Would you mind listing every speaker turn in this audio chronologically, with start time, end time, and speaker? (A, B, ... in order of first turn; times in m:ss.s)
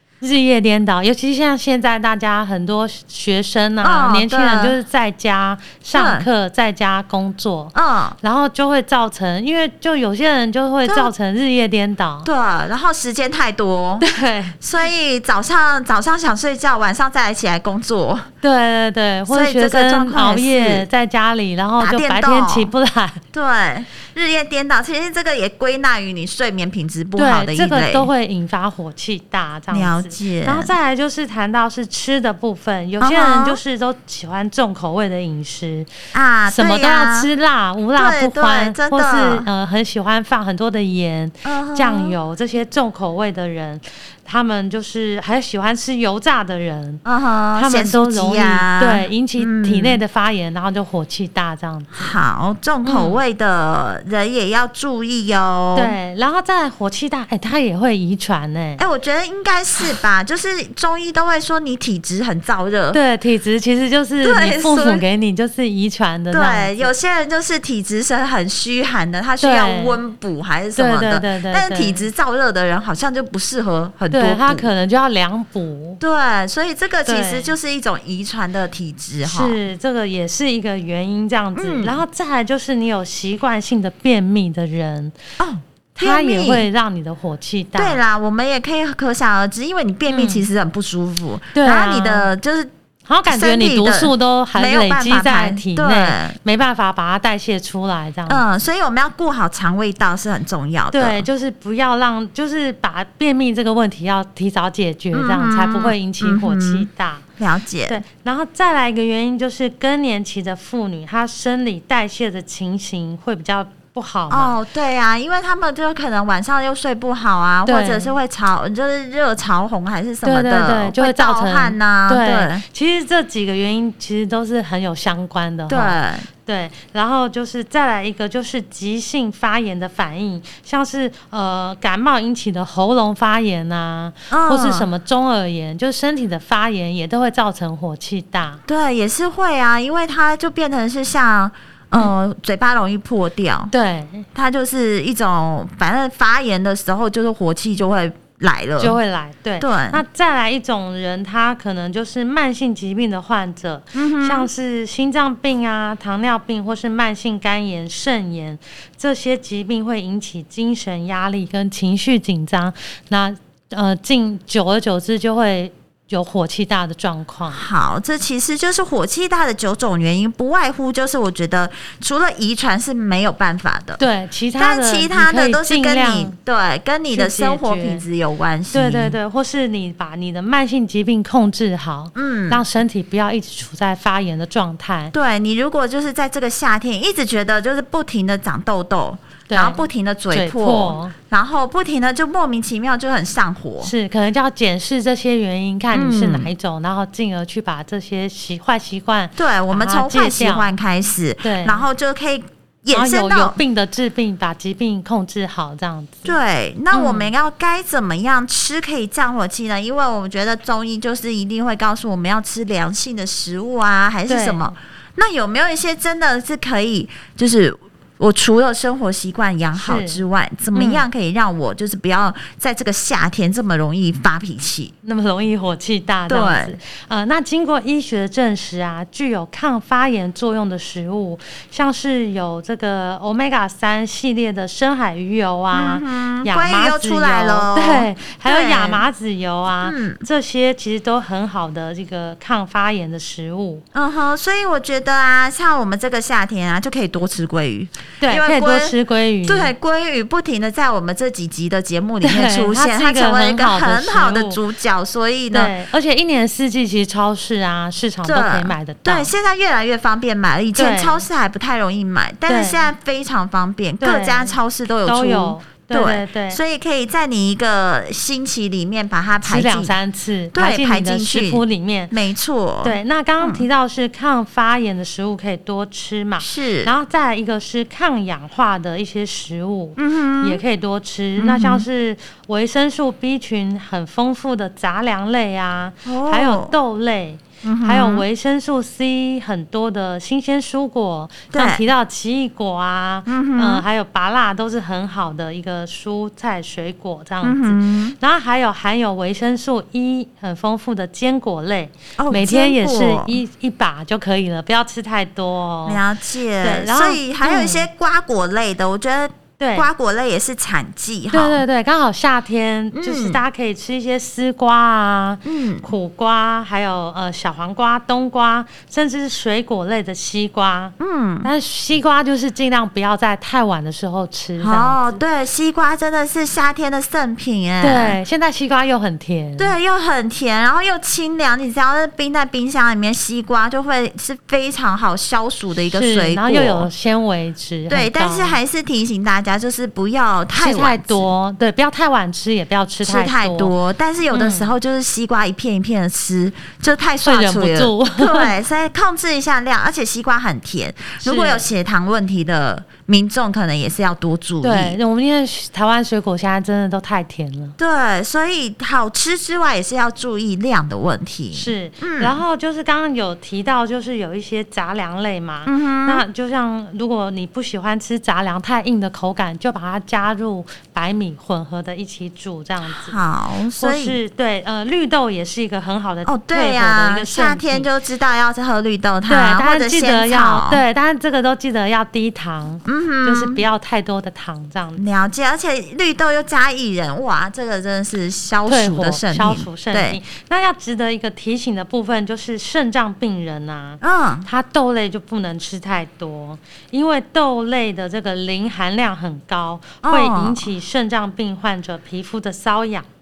0:00.2-0:12.3 A
0:03.8-0:04.8 B
0:05.9-0:06.3 B
0:07.7-0:08.2 B
0:10.8-0:11.1 B
0:12.2-0:14.1 B
0:14.0-0:14.6 A
0:14.6-0:18.3 B
0:18.4-0:23.2 A
0:19.3-0:20.9 B
0:21.8-0:22.7 B
0:23.3-0:28.1 B
0:27.2-0:35.9 A
0:29.7-0:30.7 B
0:33.0-0:33.6 B
0:36.1-0:37.3 B
0:36.5-0:47.0 A
0:38.0-0:39.4 B
0:41.4-0:42.2 B
0:47.0-0:50.0 B
0:47.5-0:52.1 A
0:52.0-0:55.9 B
0:52.8-0:53.2 A
0:55.7-0:58.8 A
0:58.8-1:03.0 B
1:02.9-1:06.9 A
1:04.2-1:05.0 B
1:06.3-1:14.7 B
1:09.4-1:10.0 A
1:10.8-1:12.0 A
1:14.1-1:16.0 A
1:16.0-1:19.6 B
1:17.0-1:17.5 A
1:19.2-1:25.1 A
1:21.6-1:22.0 B
1:25.4-1:26.7 B
1:26.0-1:28.0 A
1:27.8-1:32.7 B
1:30.1-1:30.5 A
1:31.5-1:32.3 A
1:33.0-1:38.4 A
1:33.2-1:36.4 B
1:38.3-1:41.2 B
1:40.9-1:47.2 A
1:45.1-1:46.9 B
1:47.4-1:48.0 B
1:47.9-1:54.5 A
1:54.3-2:02.6 B
1:57.6-1:58.1 A
2:00.2-2:18.6 A
2:05.7-2:06.3 B
2:14.3-2:14.9 B
2:18.7-2:23.7 B
2:23.7-2:24.3 A
2:24.3-2:29.0 B
2:28.8-2:47.6 A
2:29.6-2:30.0 B
2:33.9-2:34.5 B
2:47.5-2:54.0 B
2:54.0-2:56.4 A
2:54.6-2:59.2 B
2:57.1-2:58.0 A
2:58.7-3:05.1 A
3:02.1-3:02.6 B
3:05.1-3:13.9 B
3:09.5-3:11.1 A
3:13.8-3:20.7 A
3:15.9-3:16.5 B
3:19.4-3:23.6 B
3:21.4-3:21.8 A
3:22.9-3:26.3 A
3:26.2-3:44.9 B
3:26.9-3:27.3 A
3:34.3-3:34.8 A
3:39.7-3:40.2 A
3:40.7-3:41.0 A
3:45.0-4:03.8 A
3:46.3-3:46.8 B
3:55.7-3:59.0 B
3:59.8-4:00.2 B
4:03.9-4:15.7 B
4:08.2-4:09.7 A
4:12.2-4:14.6 A
4:15.5-4:19.3 A
4:18.2-4:30.0 B
4:20.8-4:21.2 A
4:22.5-4:22.8 A
4:24.0-4:26.6 A
4:29.4-4:32.1 A
4:30.5-4:33.6 B
4:32.8-5:06.0 A
4:36.4-4:36.9 B
4:40.0-4:40.6 B
4:41.4-4:41.8 B
4:46.0-4:46.7 B
4:47.6-4:48.2 B
4:51.5-4:51.8 B
4:53.2-4:53.8 B
4:57.4-4:58.2 B
5:02.2-5:03.4 B
5:05.8-5:11.6 B
5:06.6-5:07.9 A
5:09.6-5:09.9 A
5:11.3-5:25.2 A
5:12.9-5:13.4 B
5:15.4-5:15.9 B
5:21.0-5:21.5 B
5:24.6-5:28.2 B
5:27.8-5:29.7 A
5:29.6-5:36.9 B
5:35.9-5:38.6 A
5:37.9-5:41.3 B
5:40.5-5:43.7 A
5:43.0-5:55.0 B
5:44.3-5:44.7 A
5:47.2-5:48.5 A
5:51.2-5:51.6 A
5:54.6-5:57.8 A
5:57.8-6:02.4 B
6:01.5-6:13.2 A
6:05.6-6:06.2 B
6:13.0-6:14.2 B
6:13.8-6:17.9 A
6:16.2-6:20.8 B
6:19.3-6:25.0 A
6:22.8-6:23.6 B
6:25.0-6:30.2 B
6:28.7-6:43.1 A
6:34.0-6:34.5 B
6:40.0-6:40.7 B